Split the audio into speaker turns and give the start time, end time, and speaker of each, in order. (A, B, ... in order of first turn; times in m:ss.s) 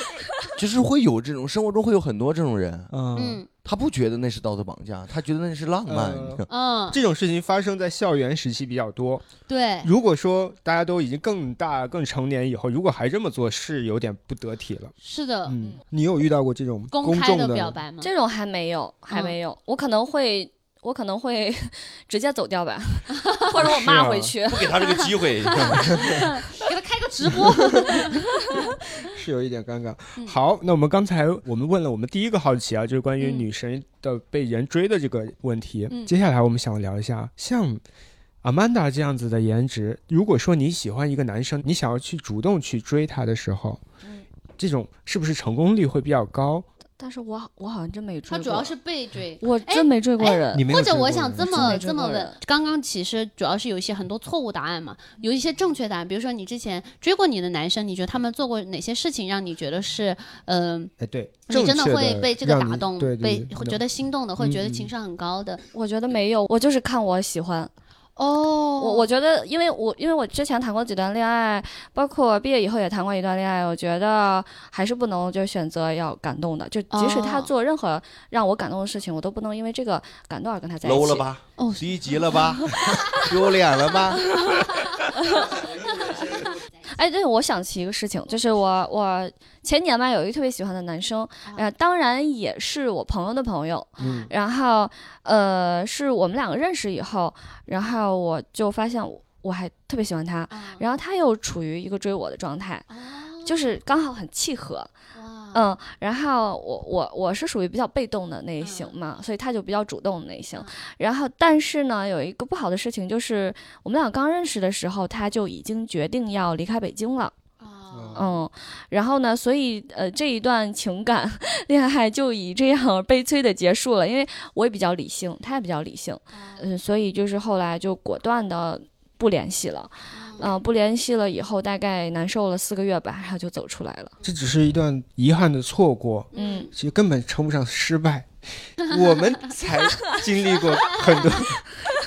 0:00.4-0:02.9 A
0:02.9-0:03.4 B
0:03.1-0:03.5 C
0:03.6-0:06.5 A
0:05.9-0:09.2 B
0:06.5-0:07.0 C
0:09.5-0:09.9 C
0:09.8-0:14.9 B
0:15.0-0:15.6 C
0:15.4-0:17.8 B
0:16.9-0:18.1 C
0:18.0-0:24.8 D
0:19.1-0:19.4 C
0:23.5-0:24.4 B
0:24.4-0:26.1 A
0:25.5-0:28.7 C
0:25.6-0:26.2 B
0:29.0-0:37.8 B
0:33.2-0:33.5 C
0:38.4-0:43.8 B
0:44.6-0:46.6 B
0:47.0-0:48.7 D
0:48.3-1:00.9 C
0:49.4-0:50.7 D
0:50.5-0:51.8 B
0:51.3-0:52.4 D
1:01.0-1:03.8 B
1:01.5-1:05.6 C
1:04.4-1:04.9 B
1:05.7-1:07.7 D
1:08.2-1:09.1 C
1:08.8-1:21.2 D
1:16.9-1:17.5 C
1:20.8-1:24.7 A
1:21.6-1:23.2 C
1:24.3-1:24.7 C
1:25.1-1:26.3 D
1:25.4-1:26.6 C
1:26.8-1:42.8 D
1:34.0-1:34.3 C
1:34.0-1:34.3 B
1:40.5-1:40.8 C
1:42.9-1:43.7 C
1:43.4-1:44.9 D
1:45.1-1:45.7 C
1:45.5-1:57.3 D
1:48.6-1:48.9 C
1:57.6-1:58.3 C
1:57.9-1:58.4 B
1:58.1-2:14.2 D
2:06.3-2:06.6 C
2:10.1-2:10.5 C
2:14.2-2:21.6 B
2:16.3-2:16.7 C
2:16.3-2:16.7 D